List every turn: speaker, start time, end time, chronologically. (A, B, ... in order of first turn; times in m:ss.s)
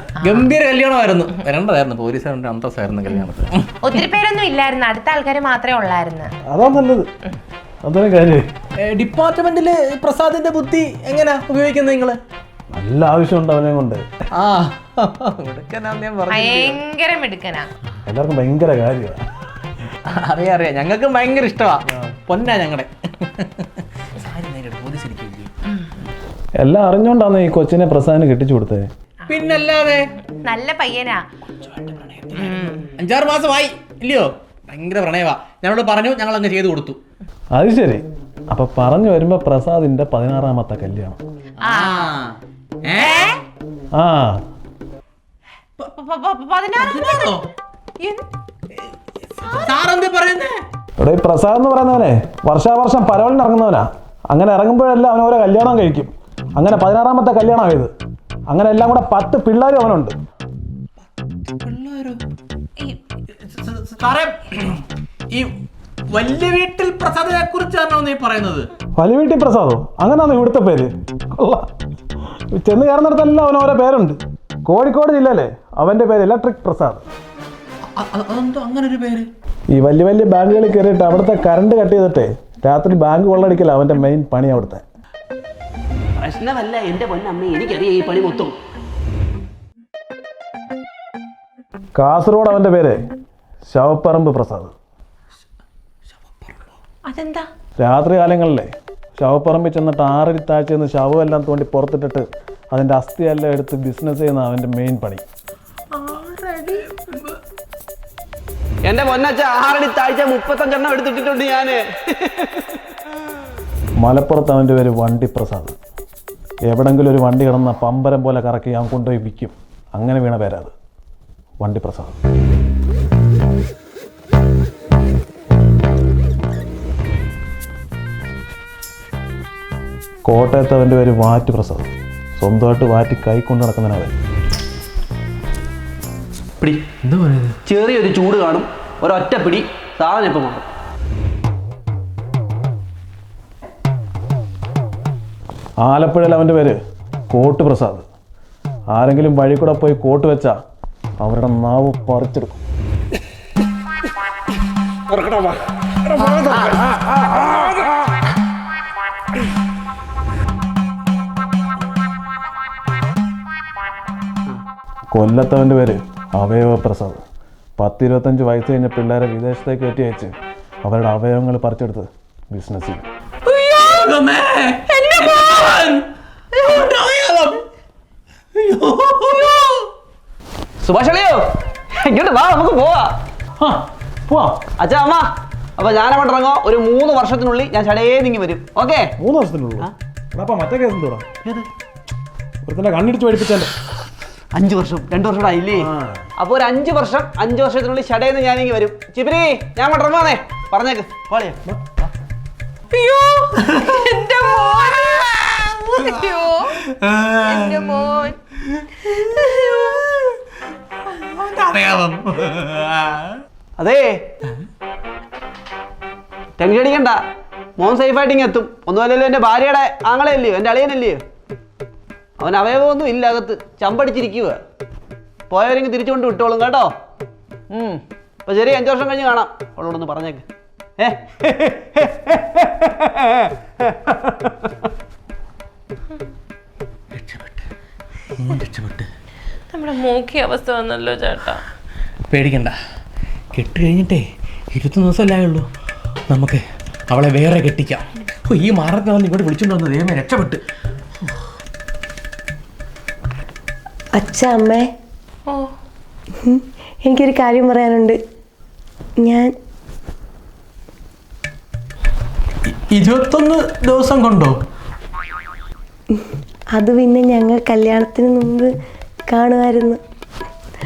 0:00.2-0:03.7 A
0:00.2-0:00.5 B
0:03.8-0:06.3 B
0:06.5-0:07.1 C
0:07.8-0:08.5 C
0:08.8-0:12.2 A
0:12.7-0:14.0 C
0:14.3-0:16.8 A
0:16.3-0:17.7 B
0:18.1-0:19.2 C
0:20.0-0:25.5 A
0:26.6-0:28.8 C
0:29.3-0:30.1 A
0:30.4-0:31.2 B
0:31.7-0:37.0 A
0:32.4-0:32.9 B
0:37.5-0:41.2 C
0:41.6-0:43.2 A
0:41.6-0:42.1 B
0:43.0-0:43.4 B
0:43.9-0:44.4 C
0:45.8-0:47.4 B
0:46.8-0:47.4 A
0:49.5-0:50.6 A
0:51.0-0:57.9 C
0:58.5-1:00.2 C
1:01.5-1:02.2 A
1:03.4-1:05.5 A
1:06.1-1:08.7 A
1:09.0-1:11.7 C
1:12.5-1:17.0 C
1:17.9-1:19.3 A
1:19.7-1:24.8 C
1:26.2-1:28.6 D
1:32.0-1:33.0 C
1:33.6-1:34.7 C
1:37.0-1:37.5 B
1:37.8-1:45.2 C
1:45.9-1:47.0 B
1:48.8-1:52.8 D
1:54.0-1:55.7 C
1:56.7-2:00.7 C
2:01.6-2:02.2 C
2:10.2-2:14.1 C
2:16.6-2:16.9 D
2:17.0-2:17.6 A
2:17.6-2:20.6 D
2:25.8-2:26.8 C
2:27.3-2:28.0 C
2:28.9-2:30.6 C
2:31.2-2:32.6 C
2:36.3-2:36.7 C
2:45.1-2:47.2 C
2:47.8-2:50.3 C
2:50.8-2:53.0 C
2:53.5-2:53.8 B
2:53.7-2:57.6 A
2:54.9-2:55.6 B
2:58.5-2:59.9 A
3:00.8-3:03.2 D
3:03.6-3:04.6 C
3:04.8-3:09.1 D
3:09.2-3:11.3 C
3:12.6-3:13.7 C
3:14.5-3:21.8 D
3:15.8-3:16.2 C
3:22.9-3:26.8 B
3:23.6-3:24.0 A
3:26.0-3:26.2 A
3:26.8-3:27.9 A
3:27.4-3:28.4 B
3:29.0-3:29.8 A
3:29.1-3:29.8 B
3:31.1-3:33.4 A
3:33.8-3:34.3 D
3:36.6-3:37.2 D
3:37.8-3:41.2 D
3:42.4-3:44.6 D
3:45.5-3:46.9 D
3:47.7-3:50.4 D
3:51.0-3:54.8 D
3:57.1-3:57.6 A
3:58.3-3:59.1 A
3:59.7-4:01.6 B
4:02.3-4:02.7 A
4:03.5-4:05.7 A
4:06.3-4:10.6 A
4:14.2-4:14.9 E
4:15.5-4:15.7 B
4:16.4-4:18.2 E
4:19.2-4:19.5 E
4:22.6-4:24.6 A
4:26.7-4:28.7 E
4:29.3-4:30.0 E